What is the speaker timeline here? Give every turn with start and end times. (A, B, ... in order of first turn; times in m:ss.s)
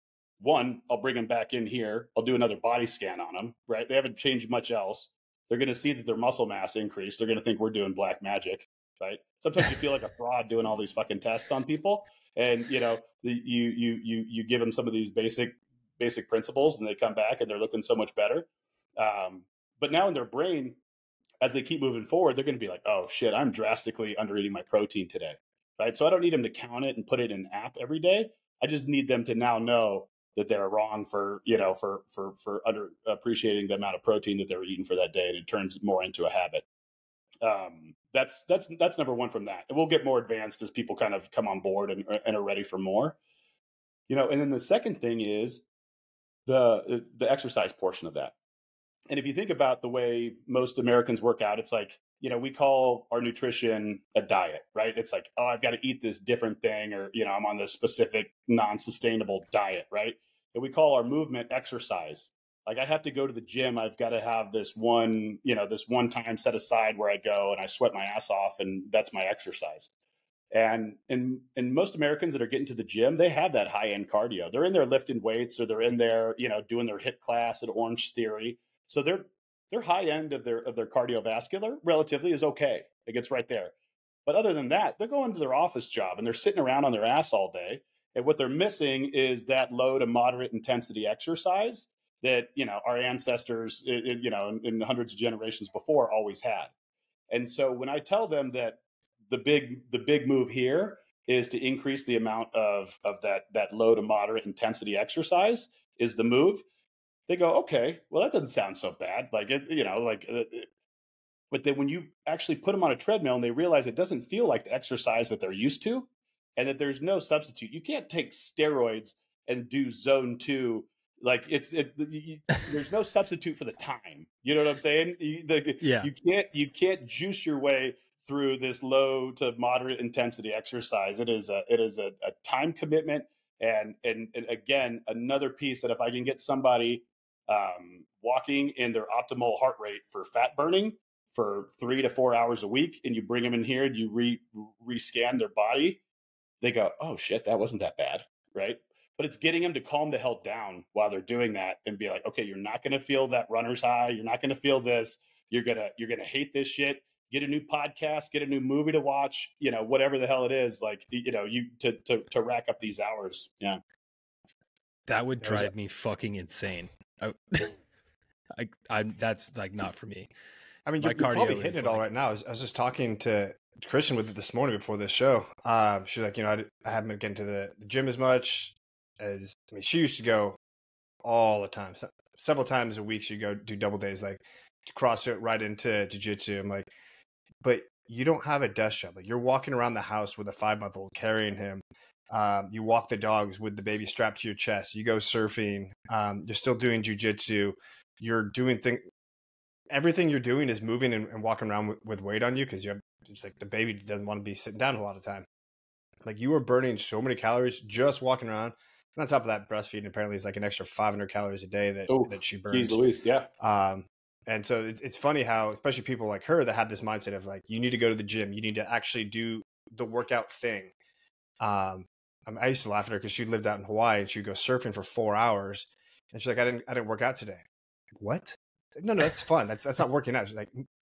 0:00.4-0:20.8 A
0:21.4-0:36.6 A
0:37.4-0:43.2 A
0:44.1-0:45.6 A
0:46.4-0:48.3 A
0:49.1-1:09.9 A
1:10.5-1:23.7 A
1:24.2-1:36.7 A
1:37.3-1:46.6 A
1:47.3-1:50.7 A
1:51.5-2:26.0 A
2:05.8-2:06.1 B
2:26.6-2:43.8 A
2:45.1-2:47.8 B
2:45.4-2:45.7 C
2:48.5-2:50.3 B
2:50.8-3:00.6 C
2:51.0-2:52.0 B
3:01.2-3:06.9 C
3:07.6-3:19.0 C
3:19.9-3:25.4 C
3:26.2-3:33.0 C
3:32.1-3:33.5 A
3:33.6-3:40.9 C
3:41.6-3:50.8 C